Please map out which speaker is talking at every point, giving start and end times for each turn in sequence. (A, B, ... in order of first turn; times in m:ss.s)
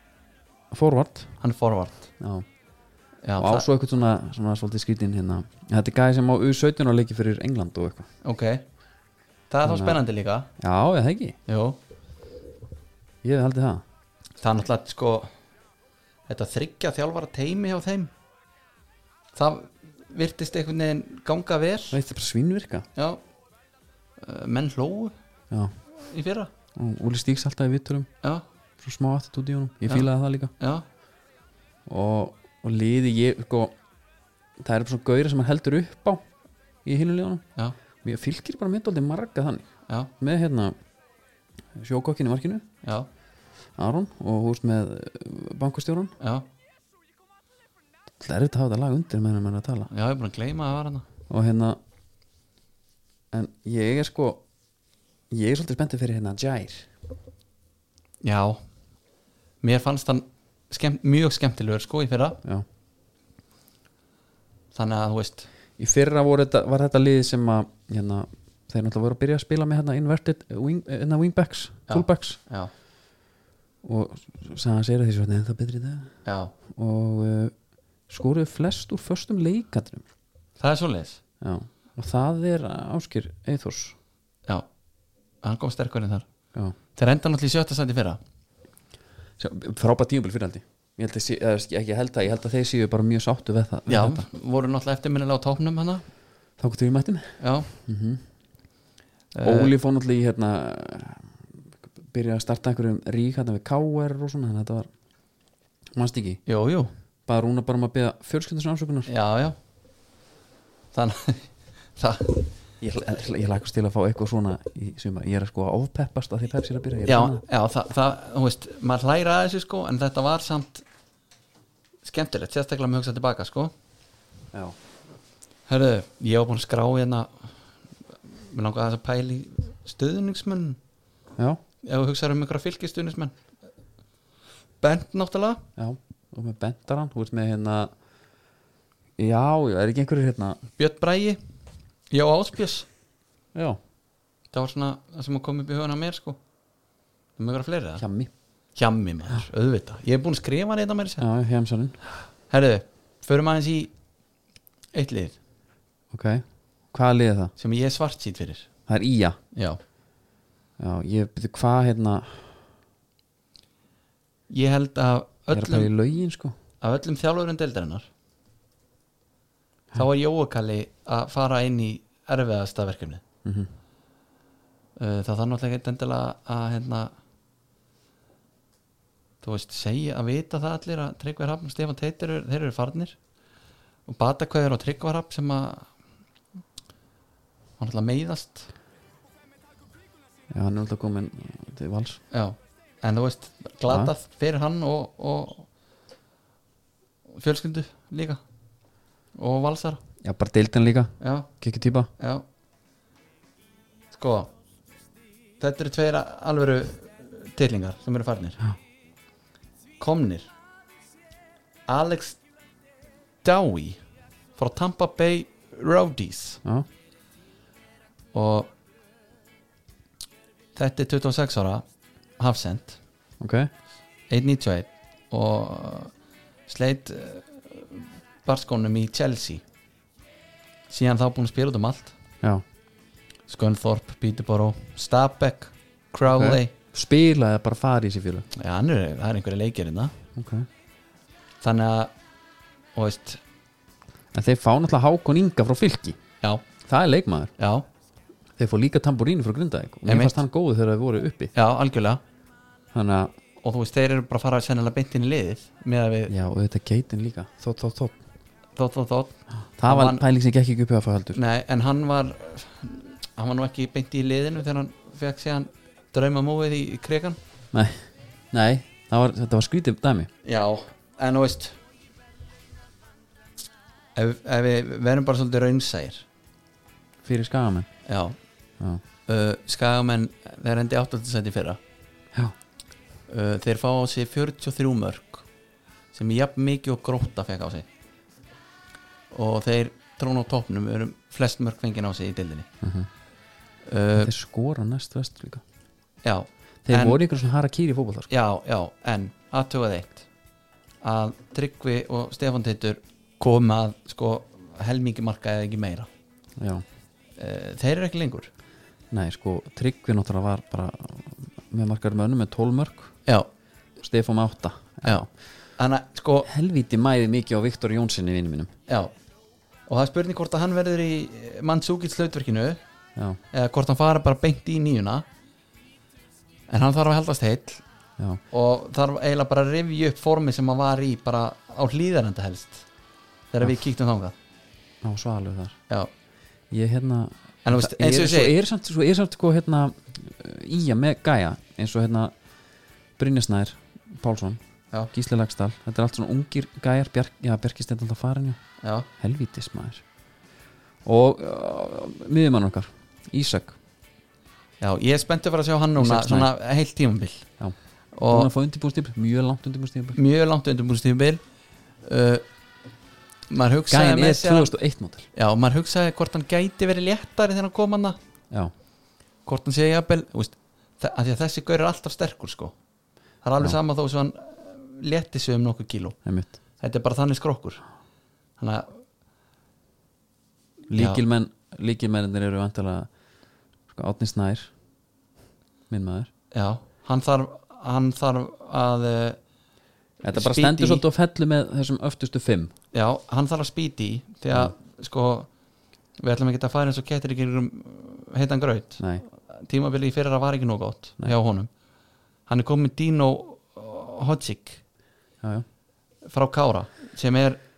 0:00.7-0:01.3 A
0:01.4-0:02.1 B
0:02.2-0:02.4 A
0:03.2-0:03.7 B
0:03.4-0:08.1 A
0:08.2-0:08.6 B
0:09.5-0:10.5 B
0:09.6-0:10.0 A
0:10.6-0:11.4 A
0:11.5-0:11.8 B
0:13.2-0:13.8 A
0:14.4-0:15.3 B
0:16.3-0:18.1 B
0:19.4-0:22.0 B
0:21.9-0:22.9 A
0:23.0-0:23.2 B
0:24.2-0:25.1 B
0:26.0-0:26.5 B
0:26.7-0:28.1 A
0:28.8-0:30.5 A
0:30.6-0:30.8 B
0:31.9-0:33.7 A
0:34.6-0:36.2 A
0:36.8-0:37.4 A
0:38.0-0:39.7 A
0:40.2-0:40.7 A
0:41.8-0:42.7 A
0:43.8-0:46.1 A
0:46.2-0:46.4 B
0:48.2-0:49.9 A
0:49.9-0:51.0 B
0:51.3-0:51.8 A
0:53.3-0:54.4 A
0:55.3-0:56.9 A
0:58.2-0:58.6 B
0:59.6-1:02.4 B
1:04.7-1:05.5 B
1:05.8-1:12.4 A
1:11.9-1:12.7 B
1:13.8-1:16.1 A
1:16.2-1:16.5 B
1:16.7-1:17.5 A
1:18.1-1:20.0 A
1:20.6-1:21.2 B
1:21.4-1:24.0 A
1:25.4-1:26.2 B
1:26.9-1:28.2 B
1:29.4-1:34.2 A
1:33.9-1:36.0 B
1:36.6-1:38.2 A
1:37.4-1:37.7 B
1:39.3-1:39.7 B
1:39.4-1:41.3 A
1:42.1-1:44.9 A
1:45.9-1:46.4 A
1:46.5-1:46.9 B
1:47.2-1:49.1 A
1:49.1-1:49.6 B
1:50.9-1:52.5 B
1:52.8-1:57.4 A
1:57.0-2:00.8 B
2:02.0-2:03.7 B
2:05.7-2:07.5 B
2:08.5-2:10.8 B
2:11.8-2:13.3 B
2:14.8-2:15.6 B
2:15.8-2:17.9 A
2:19.2-2:20.6 A
2:20.8-2:21.4 B
2:22.1-2:22.9 B
2:23.5-2:23.8 A
2:24.5-2:26.4 B
2:27.4-2:28.0 B
2:28.0-2:28.3 A
2:28.7-2:31.2 B
2:31.2-2:32.0 A
2:32.5-2:33.9 B
2:34.9-2:35.4 B
2:36.1-2:37.5 A
2:37.6-2:38.7 B
2:38.9-2:39.4 A
2:39.5-2:39.8 B
2:40.8-2:42.5 A
2:44.5-2:45.9 B
2:45.5-2:46.5 A
2:46.8-2:48.1 B
2:49.9-2:53.2 B
2:53.4-2:53.7 A
2:55.0-2:57.1 B
2:59.4-3:03.2 B
3:04.1-3:05.9 B
3:07.8-3:08.7 B
3:10.5-3:12.2 A
3:12.3-3:15.7 B
3:13.9-3:14.1 A
3:17.3-3:18.4 B
3:19.3-3:20.0 B
3:20.2-3:22.1 A
3:21.2-3:21.5 B
3:22.2-3:22.4 B
3:24.1-3:24.5 B
3:25.6-3:28.6 B
3:30.0-3:30.5 B
3:31.9-3:32.4 B
3:33.4-3:34.0 B
3:34.6-3:36.6 B
3:38.3-3:38.7 B
3:40.7-3:41.8 B
3:42.4-3:43.0 B
3:43.4-3:43.7 A
3:44.3-3:46.1 B
3:46.7-3:49.6 B
3:50.9-3:52.1 B
3:53.5-3:56.7 B
3:56.3-3:58.5 A
3:58.5-4:00.1 B
4:00.3-4:00.7 A
4:01.6-4:02.1 B
4:02.9-4:03.4 B
4:04.3-4:06.2 A
4:06.8-4:07.5 A
4:07.6-4:07.8 B
4:08.6-4:11.5 A
4:10.1-4:10.4 B
4:11.5-4:12.2 B
4:12.9-4:13.3 A
4:13.6-4:16.3 B
4:16.3-4:18.2 A
4:18.8-4:20.2 B
4:19.8-4:21.4 A
4:21.3-4:27.4 B
4:27.7-4:30.3 A
4:30.4-4:31.8 B
4:34.1-4:36.2 B
4:37.2-4:37.9 A
4:38.0-4:38.4 B
4:39.3-4:41.8 B
4:43.3-4:45.4 B
4:46.1-4:47.8 B
4:49.3-4:52.7 B
4:52.8-4:53.1 A
4:53.8-4:54.3 B
4:54.2-4:55.6 A
4:56.2-4:57.2 B
4:56.8-4:58.3 A
4:58.3-5:00.2 B
5:01.0-5:06.1 B
5:06.6-5:06.8 A
5:07.4-5:08.5 B
5:09.1-5:13.1 A
5:14.0-5:15.2 A
5:15.0-5:16.5 B
5:16.4-5:18.7 A
5:18.9-5:19.1 B
5:19.9-5:22.8 B
5:23.5-5:25.2 B
5:26.7-5:27.8 B
5:28.5-5:32.8 B
5:33.5-5:34.3 B
5:35.0-5:35.8 A
5:36.7-5:42.3 A
5:37.6-5:38.5 B
5:43.2-5:44.6 A
5:45.1-5:48.6 A
5:48.8-5:49.1 B
5:49.2-5:50.0 A
5:51.0-5:53.8 A
5:54.8-5:57.4 B
5:56.0-5:56.5 A
5:58.1-5:58.5 B
5:58.3-6:00.2 A
6:00.1-6:01.4 B
6:02.0-6:02.4 B
6:03.5-6:04.7 B
6:03.9-6:05.3 A
6:05.3-6:08.2 B
6:09.4-6:12.7 B
6:13.4-6:16.2 B
6:16.2-6:16.5 A
6:16.8-6:17.8 B
6:18.6-6:19.0 B
6:20.9-6:21.2 B
6:20.9-6:23.1 A
6:23.9-6:24.7 A
6:25.9-6:26.3 A
6:26.5-6:29.4 B
6:30.2-6:32.7 A
6:30.3-6:31.0 B
6:32.9-6:35.5 B
6:36.2-6:41.7 B
6:42.5-6:44.8 B
6:46.2-6:47.6 B